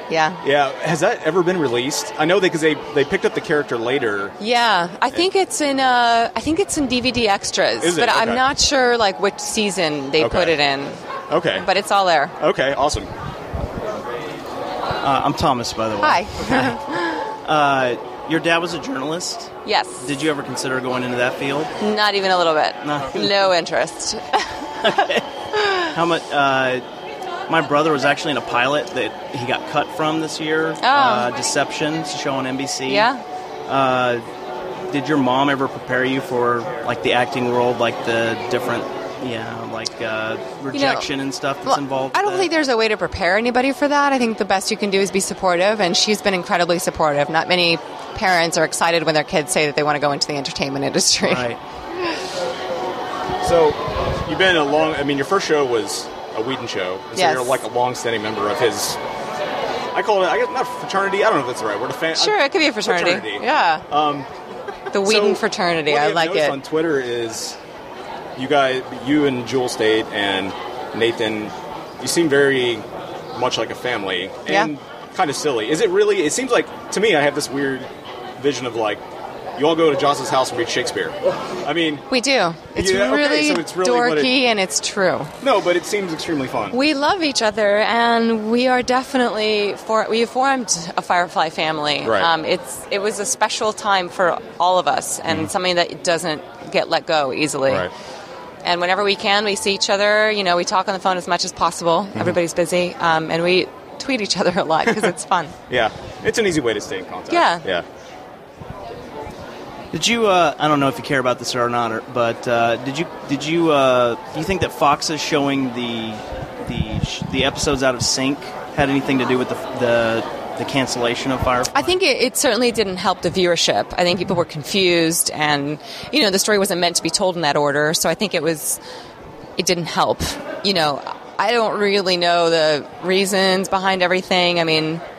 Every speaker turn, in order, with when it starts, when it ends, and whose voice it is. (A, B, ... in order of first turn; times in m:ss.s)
0:00.1-0:00.4 A
0:00.4-0:04.4 B
0:04.4-0:11.0 A
0:07.8-0:08.4 B
0:10.2-0:10.6 B
0:11.3-0:11.7 B
0:11.6-0:12.3 A
0:12.4-0:13.1 B
0:15.0-0:16.8 C
0:16.0-0:17.1 A
0:17.4-0:21.7 C
0:19.6-0:20.0 A
0:21.8-0:24.5 A
0:22.8-0:23.4 C
0:24.8-0:25.2 C
0:25.6-0:25.8 A
0:25.8-0:26.8 C
0:27.5-0:33.1 C
0:30.8-0:31.3 A
0:32.9-0:33.2 A
0:33.7-0:34.2 C
0:34.9-0:42.5 C
0:40.7-0:41.1 A
0:41.6-0:51.5 A
0:51.2-0:51.6 C
0:53.4-0:59.0 B
0:57.1-0:57.6 A
0:59.9-1:04.3 B
1:02.2-1:03.8 A
1:04.9-1:06.6 A
1:04.9-1:07.6 B
1:08.4-1:19.0 B
1:19.6-1:22.1 B
1:22.1-1:25.3 A
1:22.7-1:24.4 B
1:25.4-1:26.8 B
1:26.7-1:37.9 A
1:32.0-1:32.3 B
1:37.7-1:37.9 B
1:38.6-1:45.5 A
1:45.7-1:47.8 B
1:47.3-1:47.6 A
1:49.9-2:01.9 C
2:01.7-2:08.8 A
2:09.6-2:15.0 A